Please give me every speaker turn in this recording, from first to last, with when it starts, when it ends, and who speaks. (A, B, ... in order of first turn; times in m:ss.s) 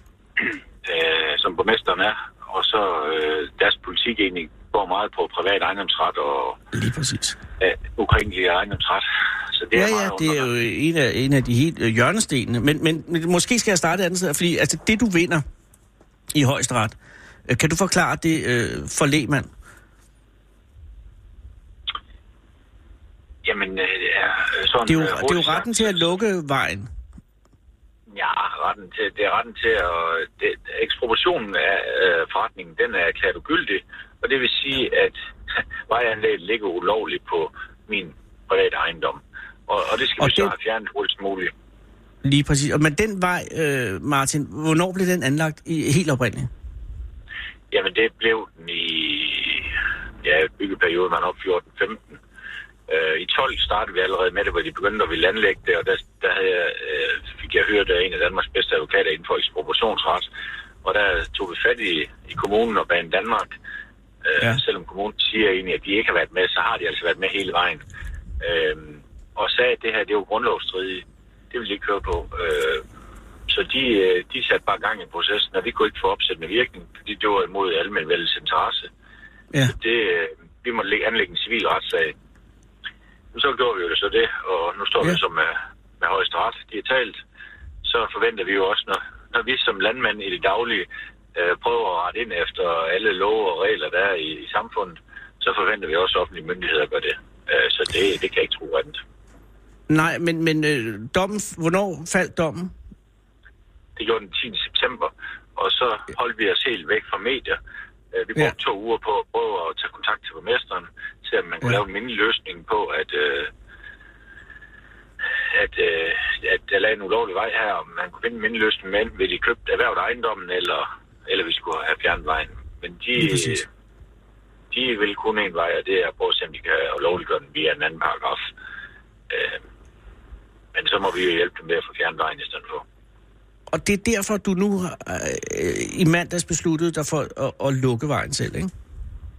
0:00.4-0:06.6 A
0:06.7-0:07.4 B
0:07.6-0:10.5 A
0:09.7-0:15.4 B
0:16.3-0:17.0 B
0:17.5-0:19.5 B
0:23.4-0:26.0 A
0:24.8-0:26.9 B
0:28.1-0:35.1 A
0:35.9-0:41.5 A
0:40.2-0:40.5 B
0:42.2-0:46.5 B
0:47.7-0:49.7 A
0:50.2-0:52.2 A
0:52.9-1:00.3 A
1:00.8-1:03.5 A
1:04.2-1:07.8 A
1:08.4-1:12.8 A
1:13.5-1:18.9 A
1:19.6-1:22.1 A
1:23.3-1:27.2 A
1:27.8-1:39.0 A
1:39.9-1:42.7 B
1:44.0-1:47.6 A
1:48.1-1:53.5 A
1:55.5-2:03.7 A
2:03.2-2:03.6 B
2:04.7-2:08.4 A
2:09.3-2:09.6 A
2:10.7-2:12.8 A
2:13.7-2:18.7 B